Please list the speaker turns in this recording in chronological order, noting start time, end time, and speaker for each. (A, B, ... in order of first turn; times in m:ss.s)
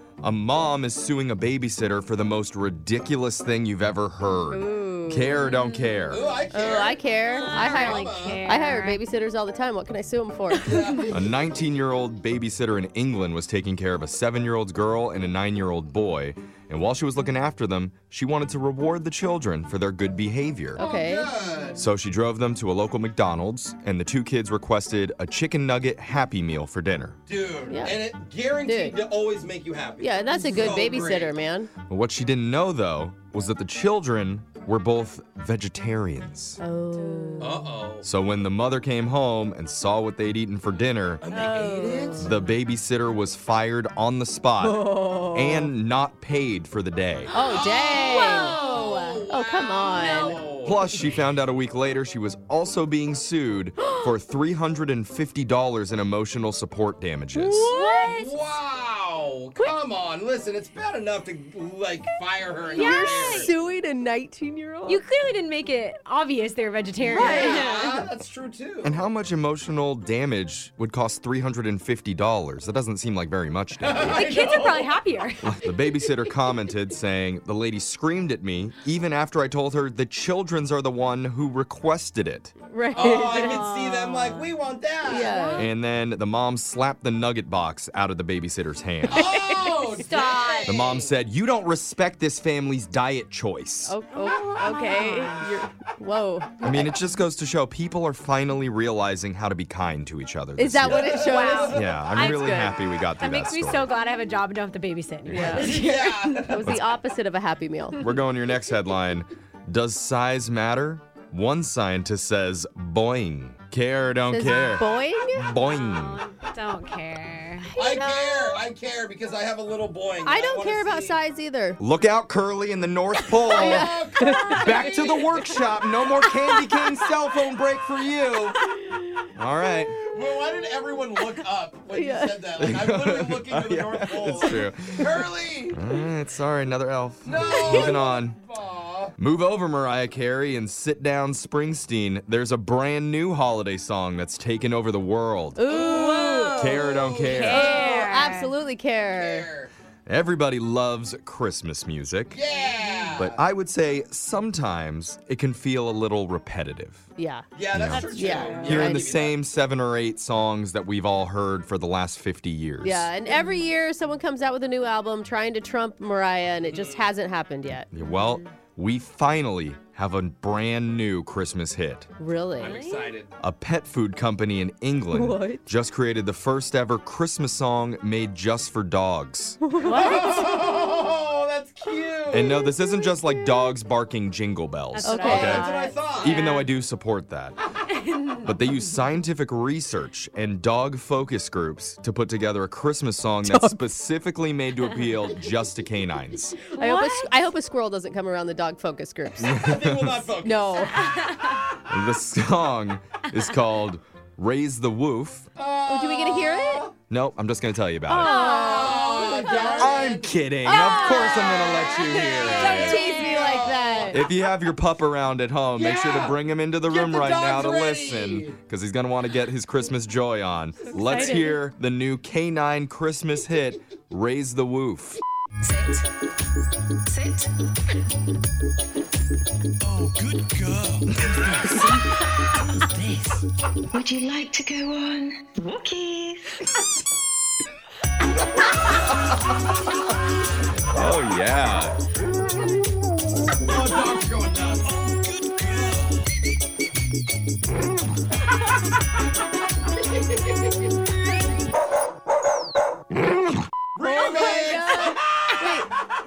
0:00.2-0:06.3 A
0:04.5-0:05.5 B
0:06.1-0:08.4 C
0:06.5-0:11.0 B
0:07.5-0:09.0 D
0:10.5-0:11.2 C
0:11.1-0:20.8 A
0:20.7-0:21.3 B
0:20.8-0:21.9 C
0:21.8-0:27.2 A
0:27.3-0:31.3 C
0:27.7-0:28.0 B
0:28.6-0:29.0 B
0:30.0-0:31.7 B
0:31.9-0:36.6 A
0:36.6-0:37.7 B
0:36.9-0:37.6 D
0:37.4-0:38.1 C
0:38.0-0:41.2 A
0:41.2-0:42.3 C
0:41.3-0:42.3 B
0:42.2-0:47.3 A
0:44.6-0:45.7 B
0:47.3-0:50.4 B
0:47.3-0:51.0 C
0:47.5-0:49.2 D
0:50.6-0:57.7 A
0:57.4-0:58.1 B
0:57.6-0:58.4 D
0:58.1-1:03.5 C
1:02.7-1:05.0 B
1:02.7-1:03.5 D
1:04.9-1:08.0 D
1:07.0-1:09.0 C
1:07.1-1:07.6 B
1:08.8-1:14.2 A
1:13.8-1:15.0 C
1:14.0-1:15.4 D
1:15.4-1:22.5 A
1:22.7-1:23.6 B
1:22.9-1:25.4 C
1:23.1-1:24.4 D
1:25.0-1:25.7 B
1:25.1-1:25.7 D
1:25.6-1:29.3 A
1:29.1-1:31.1 C
1:29.9-1:30.8 D
1:30.6-1:34.0 A
1:33.8-1:37.0 B
1:34.1-1:35.4 D
1:36.6-1:43.9 A
1:40.6-1:42.7 B
1:40.8-1:41.8 C
1:41.2-1:46.5 D
1:45.3-1:45.6 A
1:45.3-1:45.7 B
1:45.6-1:46.6 C
1:46.4-1:48.1 B
1:47.9-1:56.2 A
1:54.3-1:55.5 B
1:55.6-1:57.7 D
1:57.7-1:58.6 B
1:57.7-2:01.2 C
2:00.2-2:01.8 B
2:01.8-2:03.9 A
2:03.3-2:04.9 B
2:03.4-2:05.6 C
2:04.5-2:08.6 A
2:09.3-2:10.0 A
2:10.0-2:15.8 C
2:11.9-2:12.7 B
2:12.6-2:15.2 A
2:15.7-2:18.4 A
2:17.2-2:19.2 C
2:17.6-2:17.9 B
2:19.2-2:25.6 A
2:25.6-2:26.8 B
2:25.7-2:28.0 C
2:25.7-2:28.5 D
2:26.6-2:27.8 A
2:27.5-2:29.5 B
2:29.1-2:29.7 C
2:30.0-2:32.4 A
2:32.3-2:33.4 C
2:33.2-2:37.0 A
2:37.2-2:39.1 B
2:37.5-2:39.4 C
2:37.7-2:43.1 A
2:38.2-2:38.6 D
2:42.8-2:47.9 B
2:46.6-2:47.1 C
2:47.9-2:52.1 A
2:52.2-2:52.7 B
2:52.6-2:53.3 C
2:52.6-2:53.1 D
2:53.4-2:59.6 A
2:55.1-2:55.6 B
2:59.6-3:00.6 B
2:59.8-3:02.7 C
3:02.3-3:05.7 A
3:04.9-3:06.7 D
3:05.0-3:06.0 B
3:05.2-3:06.4 C
3:06.2-3:07.6 A
3:07.9-3:08.6 D
3:08.4-3:16.7 A
3:13.4-3:13.8 B
3:16.7-3:17.3 D
3:16.8-3:19.6 B
3:19.4-3:20.2 A
3:19.4-3:21.0 C
3:20.4-3:21.1 B
3:20.9-3:21.6 D
3:21.8-3:25.5 A
3:25.6-3:26.9 C
3:25.9-3:26.9 B
3:27.1-3:28.4 A
3:28.1-3:34.2 B
3:28.2-3:29.0 D
3:28.4-3:30.3 C
3:29.8-3:33.2 A
3:30.7-3:33.7 D
3:32.5-3:34.2 C
3:34.0-3:45.2 A
3:35.7-3:38.6 C
3:40.9-3:41.5 D
3:41.1-3:41.4 C
3:47.2-3:47.4 E
3:51.1-3:51.9 A
3:51.6-3:52.0 D
3:53.9-3:56.4 E
4:00.8-4:01.9 A
4:03.6-4:05.2 C
4:13.9-4:15.5 C
4:14.0-4:15.9 B